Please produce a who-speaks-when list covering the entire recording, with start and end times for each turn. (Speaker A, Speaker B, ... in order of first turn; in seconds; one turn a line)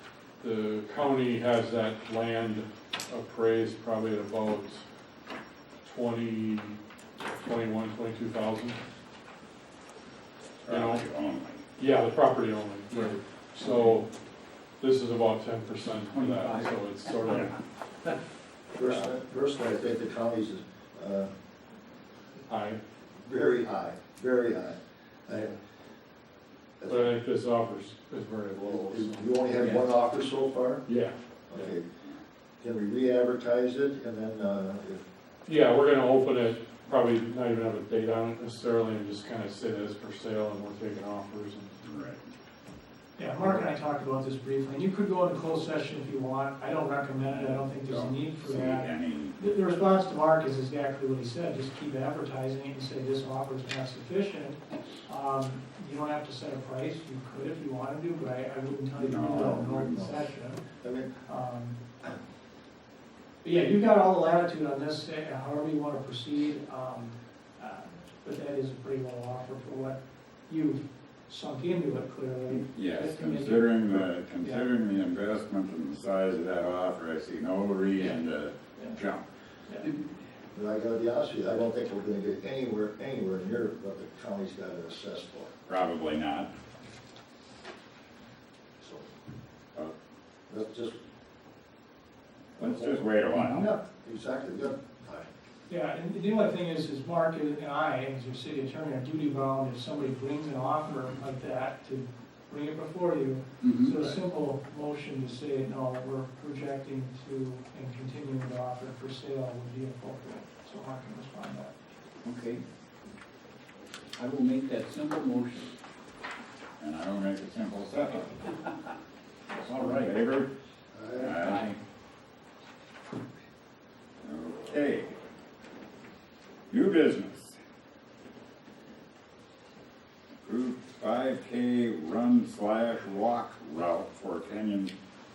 Speaker A: 0.4-4.8
Speaker A: 5.8-6.8
Speaker A: 7.3-8.8
Speaker B: 10.6-11.6
Speaker A: 10.7-11.0
Speaker A: 11.8-14.1
Speaker C: 12.9-14.0
Speaker A: 14.8-17.5
Speaker C: 16.1-17.5
Speaker D: 18.7-21.3
Speaker A: 22.5-22.8
Speaker D: 23.2-25.6
Speaker D: 26.8-27.1
Speaker A: 26.9-29.4
Speaker D: 28.7-30.8
Speaker C: 29.6-29.9
Speaker A: 30.8-31.7
Speaker D: 31.5-31.9
Speaker D: 32.6-35.0
Speaker A: 35.5-41.8
Speaker B: 41.8-42.3
Speaker E: 43.2-60.7
Speaker D: 43.4-43.7
Speaker B: 47.2-49.4
Speaker B: 59.0-60.0
Speaker D: 59.0-61.1
Speaker E: 61.2-61.8
Speaker E: 63.4-74.6
Speaker B: 72.5-79.2
Speaker D: 80.5-85.5
Speaker B: 85.7-86.5
Speaker D: 88.8-89.1
Speaker D: 90.5-91.0
Speaker B: 92.6-93.7
Speaker D: 92.6-95.3
Speaker E: 95.7-111.7
Speaker C: 103.6-104.0
Speaker C: 112.2-112.6
Speaker C: 114.2-115.7
Speaker B: 116.8-118.4
Speaker C: 119.6-120.1
Speaker B: 119.6-120.5
Speaker D: 120.9-121.4
Speaker B: 121.2-121.6
Speaker C: 121.4-121.8
Speaker B: 124.2-125.2
Speaker B: 126.7-127.6
Speaker B: 130.3-134.9